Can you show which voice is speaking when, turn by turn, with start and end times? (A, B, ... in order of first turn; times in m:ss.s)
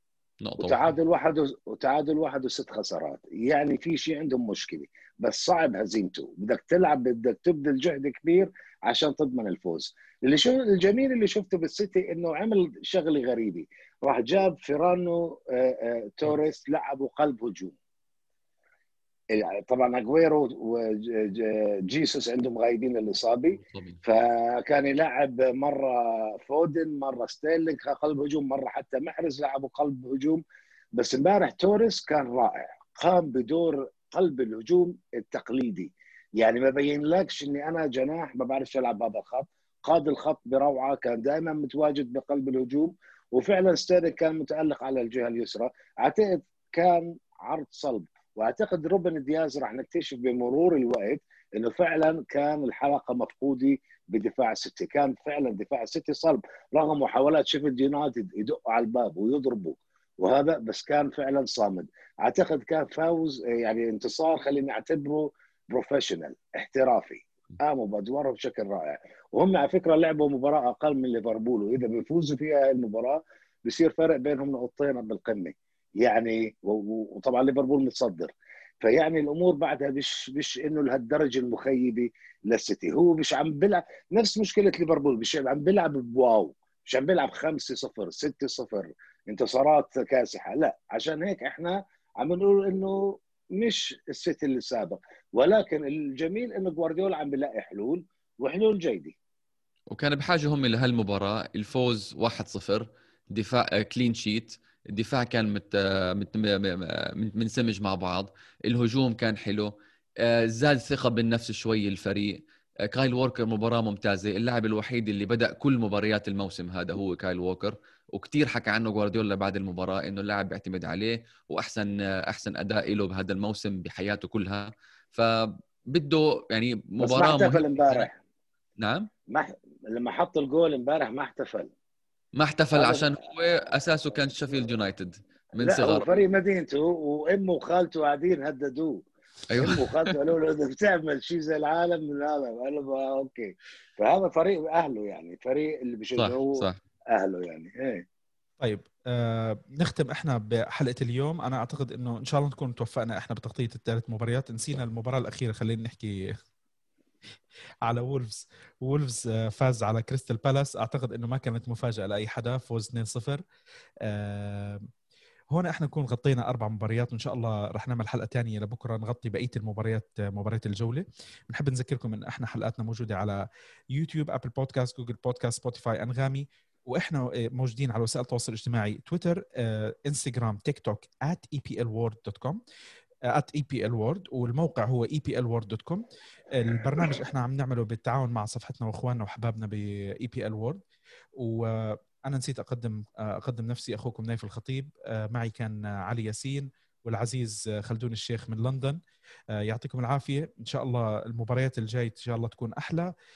0:00.4-0:00.9 A
0:00.6-0:17.8 B
0:19.3-0:30.4 B
0:23.5-0:24.0 A
0:31.0-1:39.2 B
1:39.9-1:49.7 A
1:50.2-1:52.4 A
1:52.9-2:08.1 A
2:07.0-2:08.2 B
2:08.8-2:09.1 A
2:09.3-2:11.7 B
2:12.4-2:16.2 A
2:12.8-2:13.2 B
2:15.6-2:28.0 B
2:19.5-2:20.1 A
2:26.2-2:26.8 A
2:28.6-2:36.3 C
2:37.9-2:43.4 C
2:44.1-2:44.9 C
2:45.5-2:53.4 C
2:53.9-3:02.6 C
3:03.3-3:10.8 C
3:11.4-3:19.0 C
3:19.6-3:23.1 C